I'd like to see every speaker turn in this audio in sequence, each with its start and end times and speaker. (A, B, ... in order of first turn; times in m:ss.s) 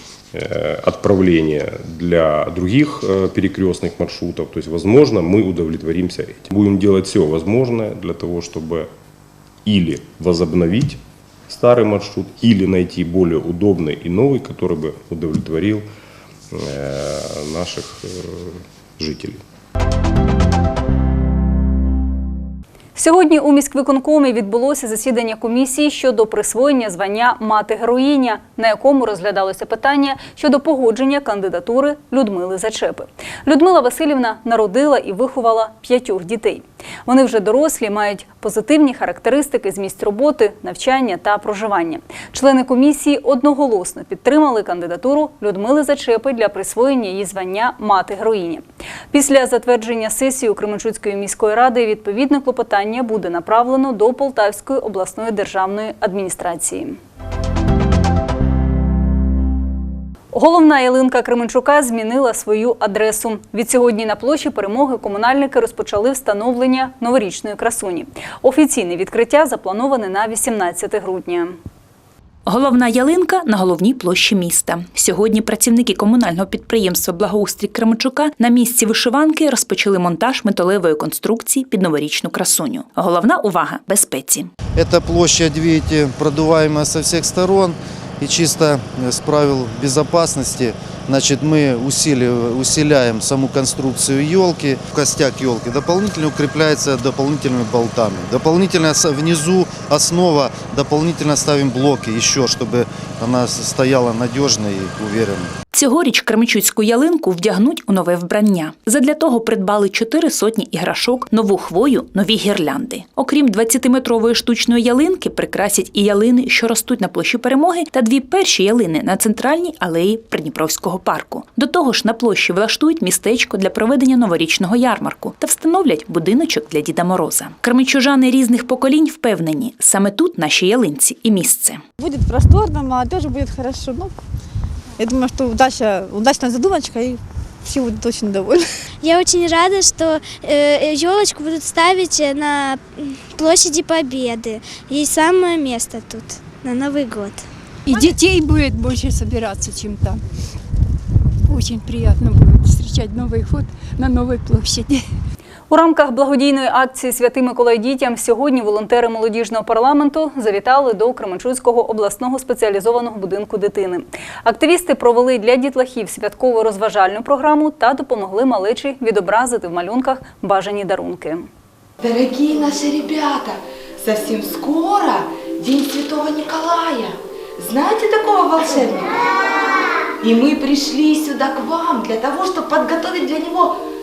0:00.3-0:08.9 A
0:09.6-0:15.8 A
0:16.5-0:19.4 A
0:23.0-0:57.0 B
1:00.3-1:11.6 B
1:12.5-1:24.5 C
1:24.8-1:45.5 D
1:45.7-2:11.8 C
2:12.0-2:14.1 E
2:15.0-2:17.2 E
2:17.7-2:18.5 E
2:19.0-2:27.4 F
2:27.9-2:30.2 G
2:31.5-2:35.0 G
2:35.7-2:51.5 B
2:52.6-2:53.1 H
2:54.0-2:54.6 H
2:55.8-2:57.1 H
2:57.6-2:59.0 H
3:01.2-3:03.6 H